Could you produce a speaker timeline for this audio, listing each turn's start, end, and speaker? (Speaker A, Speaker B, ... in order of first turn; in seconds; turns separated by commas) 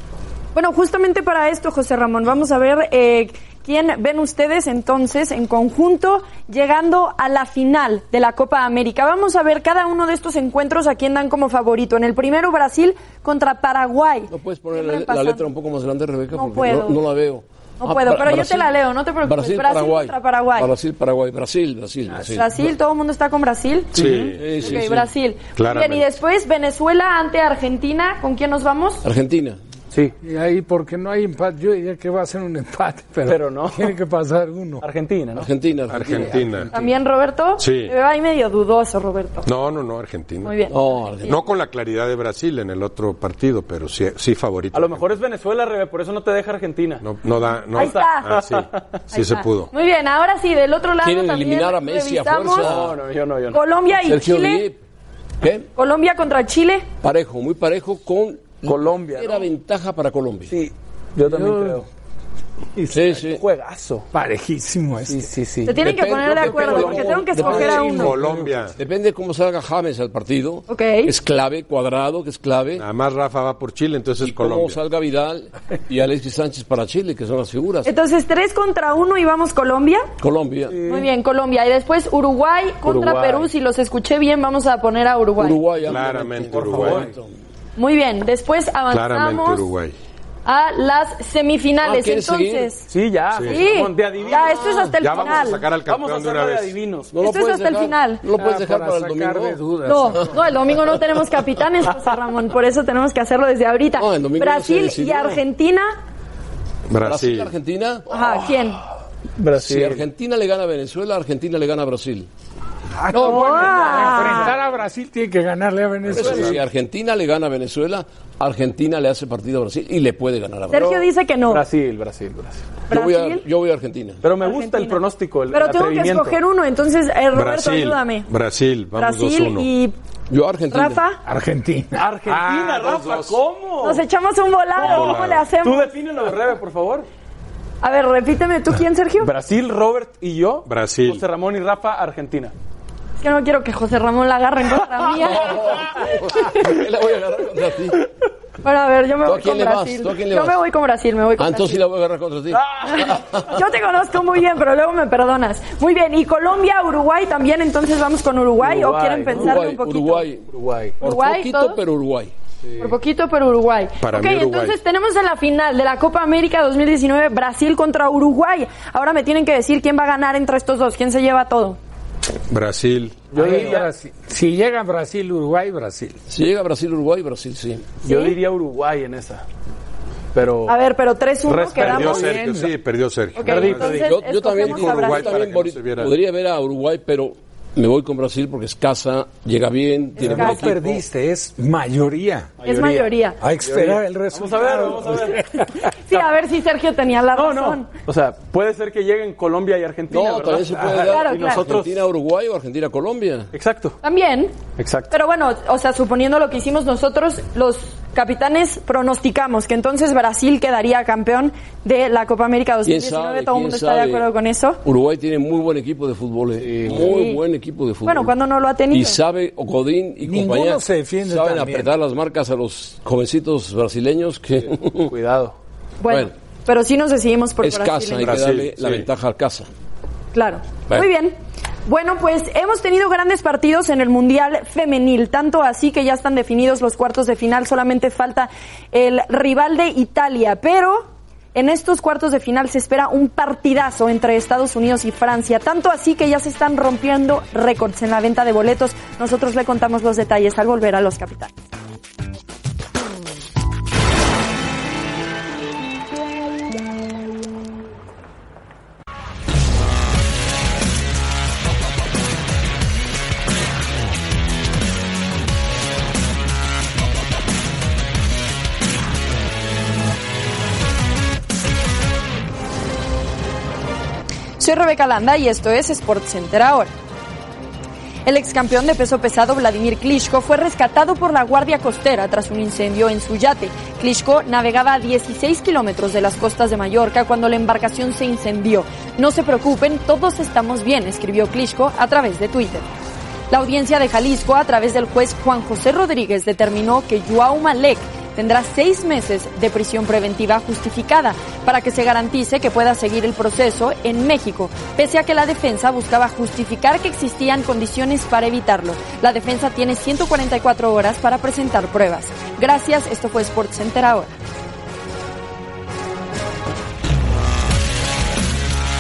Speaker A: 0.5-15.5, Speaker B: 14.3-22.7, Speaker A: 16.3-17.0, Speaker A: 17.8-20.7, Speaker A: 22.3-29.0, Speaker C: 23.9-24.4, Speaker D: 23.9-24.4, Speaker B: 24.4-25.1, Speaker C: 25.6-26.1, Speaker B: 29.0-29.6, Speaker E: 30.2-34.9, Speaker D: 33.2-34.0, Speaker D: 34.8-35.5, Speaker B: 35.4-36.9, Speaker C: 35.9-36.7, Speaker E: 36.0-36.6, Speaker A: 36.7-39.5, Speaker C: 37.6-37.9, Speaker C: 39.5-40.5, Speaker A: 40.4-41.3, Speaker B: 40.7-41.4, Speaker C: 41.3-45.1, Speaker D: 44.7-47.0, Speaker C: 47.0-49.7, Speaker A: 47.7-48.4, Speaker D: 47.7-48.9, Speaker A: 49.1-52.7, Speaker B: 51.0-53.0, Speaker D: 52.6-53.6, Speaker A: 53.5-54.7, Speaker B: 53.9-54.8, Speaker B: 55.4-55.7, Speaker A: 55.8-56.9, Speaker B: 57.0-60.6, Speaker D: 58.6-59.5, Speaker D: 60.5-61.9, Speaker E: 61.3-61.9, Speaker B: 62.9-63.4, Speaker D: 63.1-64.1, Speaker E: 64.1-65.3, Speaker D: 65.0-67.7, Speaker A: 65.6-68.2, Speaker B: 65.8-68.1, Speaker C: 67.5-68.8, Speaker E: 67.7-68.5, Speaker B: 68.8-72.8, Speaker A: 70.7-71.1, Speaker C: 72.8-74.8, Speaker B: 74.2-77.9, Speaker A: 77.8-80.1, Speaker B: 80.2-80.8, Speaker D: 80.7-81.1, Speaker A: 80.8-85.7, Speaker D: 82.8-83.5, Speaker B: 85.4-87.3, Speaker C: 85.8-87.1, Speaker D: 86.6-87.1, Speaker A: 87.8-89.7, Speaker C: 88.9-90.0, Speaker A: 90.5-92.9, Speaker B: 91.8-92.7, Speaker D: 92.9-97.1, Speaker C: 93.3-93.6, Speaker A: 93.5-95.7, Speaker C: 95.0-96.8, Speaker B: 97.1-99.6, Speaker A: 97.2-98.3, Speaker E: 98.3-100.4, Speaker A: 99.8-105.9, Speaker B: 104.0-105.4, Speaker C: 106.9-107.5, Speaker B: 107.0-108.1, Speaker A: 108.1-108.8, Speaker D: 108.2-108.6, Speaker D: 109.4-110.0, Speaker B: 109.5-112.3, Speaker D: 113.0-114.6, Speaker E: 113.1-116.6, Speaker A: 113.1-114.5, Speaker B: 116.1-120.9, Speaker A: 120.7-121.7, Speaker D: 120.7-122.7, Speaker A: 122.9-123.5, Speaker B: 122.9-124.2, Speaker D: 124.2-126.4, Speaker A: 124.3-128.3, Speaker C: 127.3-129.7, Speaker A: 129.0-129.9, Speaker B: 130.3-131.0, Speaker A: 130.7-131.2, Speaker E: 131.2-133.1, Speaker D: 131.9-134.1, Speaker A: 133.8-135.9, Speaker D: 134.8-137.1, Speaker C: 134.8-135.5, Speaker A: 137.8-139.3, Speaker D: 139.2-142.5, Speaker C: 140.7-141.2, Speaker A: 143.2-146.5, Speaker B: 145.3-148.0, Speaker A: 148.6-151.9, Speaker B: 149.2-150.6, Speaker B: 151.4-153.4, Speaker D: 152.5-153.1, Speaker A: 152.8-160.3, Speaker D: 158.6-159.6, Speaker B: 159.3-160.5, Speaker D: 160.5-161.0, Speaker A: 161.0-161.8, Speaker B: 161.0-162.3, Speaker A: 162.8-171.8, Speaker C: 164.0-164.8, Speaker C: 172.5-173.2, Speaker D: 173.3-173.9, Speaker E: 173.3-176.2, Speaker B: 176.3-178.0, Speaker A: 178.0-178.4, Speaker D: 178.0-179.4, Speaker D: 180.3-180.8, Speaker A: 180.7-182.7, Speaker D: 181.5-182.7, Speaker C: 181.8-184.0, Speaker A: 183.4-185.4, Speaker D: 183.4-184.2, Speaker B: 183.9-191.0, Speaker C: 184.6-186.2, Speaker A: 190.2-190.7, Speaker E: 190.2-192.5, Speaker D: 192.6-195.6, Speaker A: 192.6-193.4, Speaker E: 193.4-195.8, Speaker A: 195.8-197.9, Speaker D: 197.3-202.0, Speaker B: 200.1-203.5, Speaker A: 201.0-201.7, Speaker D: 203.5-204.0, Speaker A: 204.0-204.6, Speaker D: 204.8-205.1, Speaker A: 205.1-214.8, Speaker B: 212.8-214.3, Speaker B: 214.8-218.3, Speaker D: 216.6-217.1, Speaker A: 216.9-217.4, Speaker A: 218.0-219.2, Speaker B: 218.9-225.1, Speaker E: 220.2-221.9, Speaker D: 225.1-225.6, Speaker A: 226.0-228.4, Speaker B: 227.6-229.7, Speaker C: 228.2-229.1, Speaker A: 230.3-231.4, Speaker A: 231.9-251.5, Speaker A: 274.6-276.9, Speaker A: 278.3-292.9, Speaker A: 293.5-314.3